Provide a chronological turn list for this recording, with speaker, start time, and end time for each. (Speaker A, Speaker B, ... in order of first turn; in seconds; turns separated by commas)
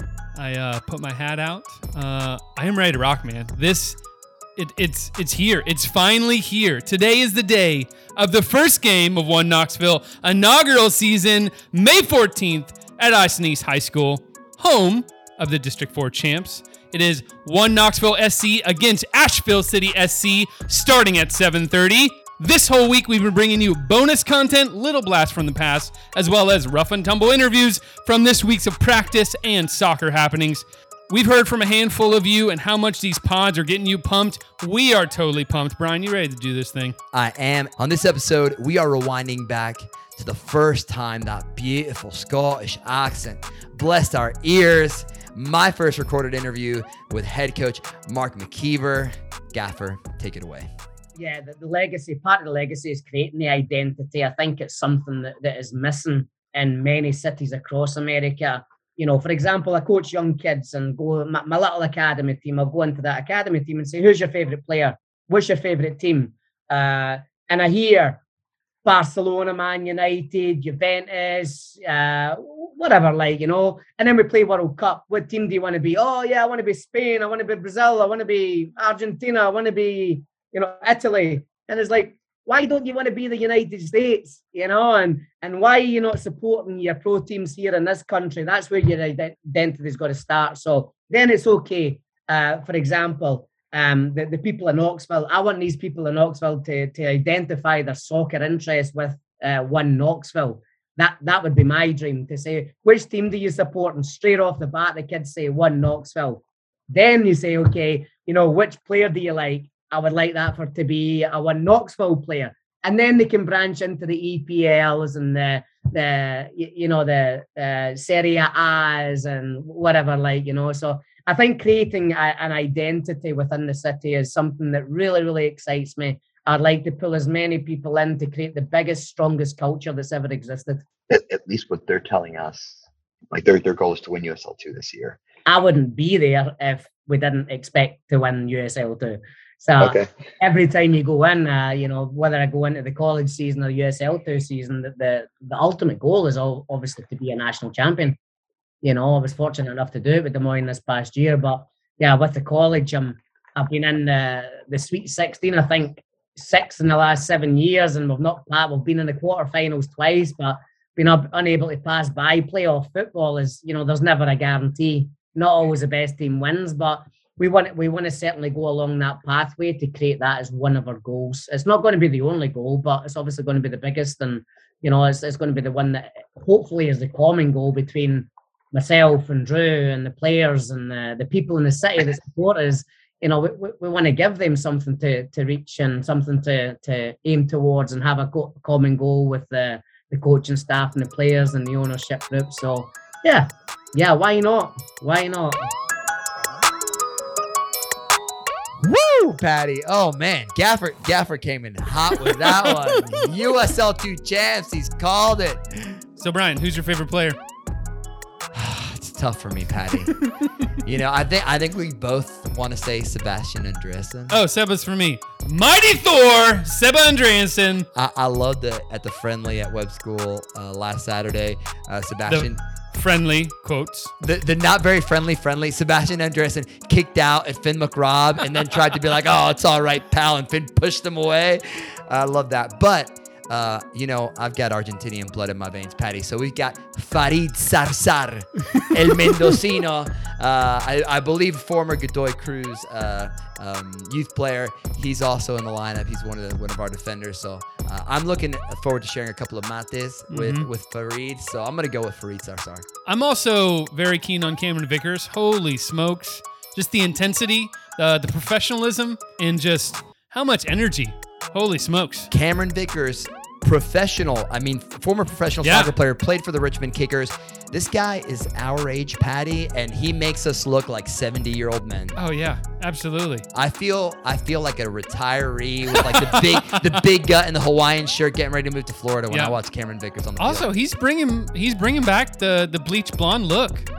Speaker A: 0.3-4.0, Speaker A: 4.6-37.0, Speaker B: 37.1-50.7, Speaker C: 51.2-68.2, Speaker C: 68.8-130.9, Speaker D: 131.1-135.2, Speaker C: 135.5-148.2, Speaker D: 139.8-140.1, Speaker C: 148.8-195.7, Speaker B: 198.8-206.0, Speaker A: 202.6-203.1, Speaker A: 206.2-207.4, Speaker B: 208.5-210.2, Speaker B: 210.8-214.4, Speaker A: 214.3-217.9, Speaker B: 217.9-222.6, Speaker A: 222.3-224.1, Speaker B: 224.2-252.8, Speaker A: 250.3-250.7, Speaker A: 253.1-262.3, Speaker B: 262.3-272.2, Speaker A: 265.6-265.9, Speaker A: 272.2-273.4, Speaker B: 273.5-280.7, Speaker A: 275.9-276.8, Speaker A: 279.3-279.6, Speaker A: 280.4-283.9